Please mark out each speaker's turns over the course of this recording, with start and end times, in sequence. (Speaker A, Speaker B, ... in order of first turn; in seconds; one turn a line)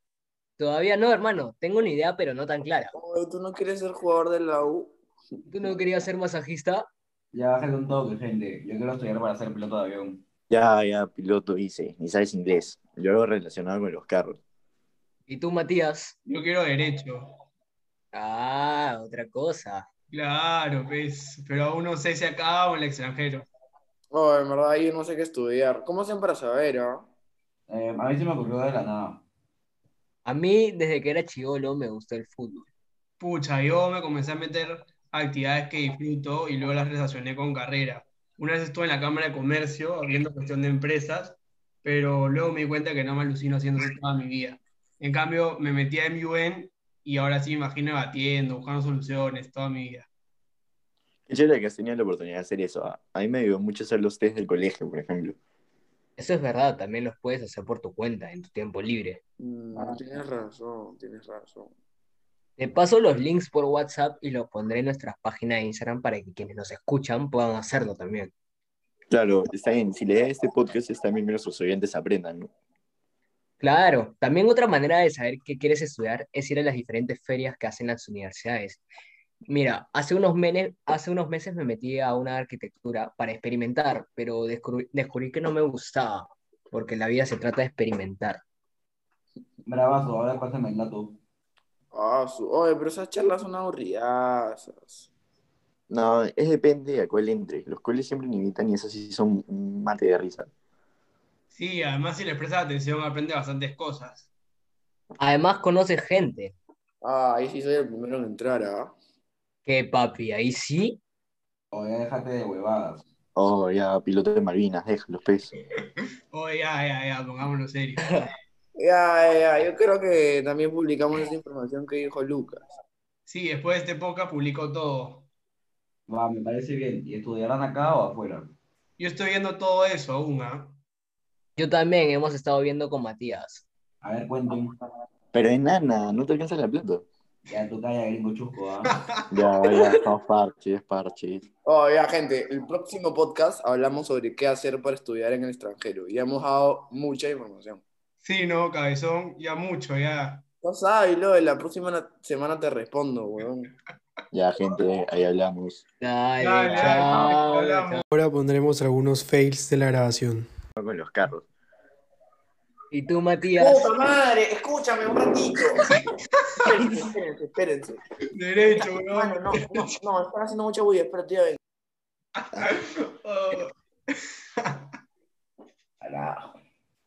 Speaker A: 0.6-2.9
Speaker B: 2.9-4.9
Speaker A: 5.5-6.9
Speaker C: 7.3-10.2
Speaker D: 10.5-14.4
Speaker A: 15.3-16.1
Speaker E: 16.2-17.3
Speaker A: 18.1-19.9
Speaker E: 20.1-23.5
Speaker B: 24.1-27.1
Speaker C: 27.7-29.2
Speaker A: 30.2-32.7
Speaker E: 33.2-50.1
Speaker D: 51.3-55.4
Speaker A: 56.2-59.2
Speaker B: 59.4-61.7
Speaker A: 62.6-68.3
Speaker D: 69.1-72.5
Speaker A: 73.6-78.8
Speaker A: 79.5-88.4
Speaker C: 89.7-91.2
Speaker B: 91.9-95.0
Speaker D: 95.9-100.5
Speaker E: 101.5-104.3
Speaker A: 105.2-106.5
Speaker B: 107.0-108.9
Speaker A: 109.7-111.0
Speaker C: 111.7-113.0
Speaker D: 113.3-115.6
Speaker E: 116.3-118.0
Speaker A: 118.0-118.3
Speaker B: 118.8-122.6
Speaker E: 123.3-125.2
Speaker C: 126.1-128.5
Speaker E: 129.0-130.8
Speaker A: 131.6-133.6
Speaker C: 134.0-134.7
Speaker D: 135.3-137.0
Speaker C: 137.5-138.9
Speaker D: 139.3-141.4
Speaker B: 141.6-147.8
Speaker E: 148.2-150.4
Speaker B: 150.6-153.7
Speaker D: 154.3-155.8
Speaker A: 156.0-158.0
Speaker E: 156.4-158.0
Speaker F: 158.1-160.4
Speaker D: 160.8-161.5
Speaker A: 162.9-163.9
Speaker B: 163.5-165.8
Speaker B: 166.6-168.0
Speaker E: 168.3-169.6
Speaker B: 168.6-171.6
Speaker E: 172.4-173.7